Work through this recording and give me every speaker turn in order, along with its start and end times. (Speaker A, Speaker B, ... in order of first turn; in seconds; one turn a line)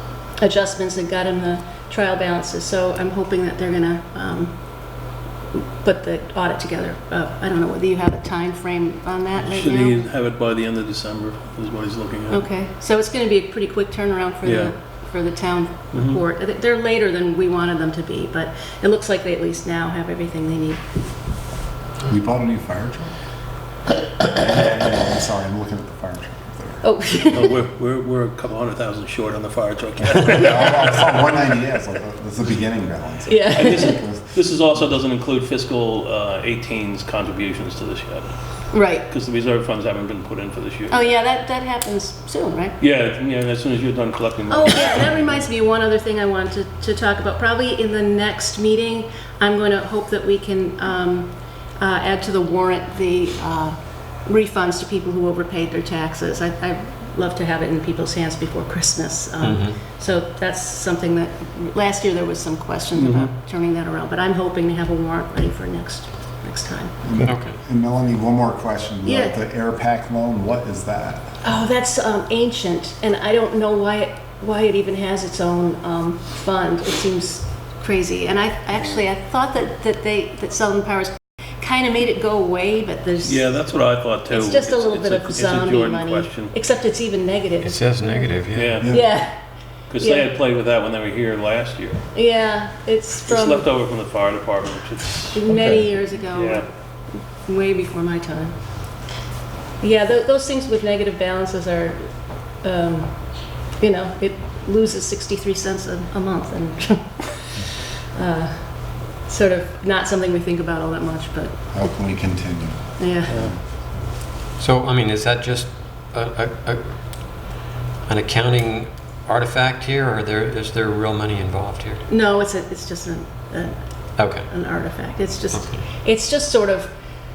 Speaker A: 0.3-10.1
Speaker B: 9.4-12.4
Speaker A: 12.3-20.8
Speaker B: 14.4-14.7
Speaker B: 15.9-16.2
Speaker C: 22.1-23.1
Speaker C: 24.2-26.9
Speaker A: 26.8-27.6
Speaker B: 27.3-30.9
Speaker C: 30.2-34.3
Speaker A: 33.3-34.0
Speaker B: 33.5-38.3
Speaker A: 38.7-39.1
Speaker B: 39.0-41.1
Speaker A: 40.9-42.8
Speaker B: 42.8-45.1
Speaker A: 44.5-67.0
Speaker D: 59.4-59.8
Speaker B: 63.0-63.3
Speaker C: 67.0-71.4
Speaker D: 67.2-67.6
Speaker A: 69.0-69.4
Speaker A: 71.4-83.6
Speaker B: 83.2-86.5
Speaker A: 84.3-88.2
Speaker D: 87.6-88.8
Speaker B: 88.5-89.0
Speaker A: 88.8-89.4
Speaker B: 89.9-92.0
Speaker A: 90.0-90.3
Speaker A: 92.1-93.7
Speaker B: 93.2-95.5
Speaker A: 95.3-96.7
Speaker B: 96.3-96.7
Speaker A: 97.4-98.6
Speaker A: 99.8-111.6
Speaker C: 111.7-113.6
Speaker A: 113.0-113.4
Speaker B: 113.3-113.5
Speaker D: 114.6-117.2
Speaker D: 118.1-122.0
Speaker A: 122.1-123.8
Speaker D: 124.2-124.5
Speaker A: 124.3-126.9
Speaker D: 125.5-125.8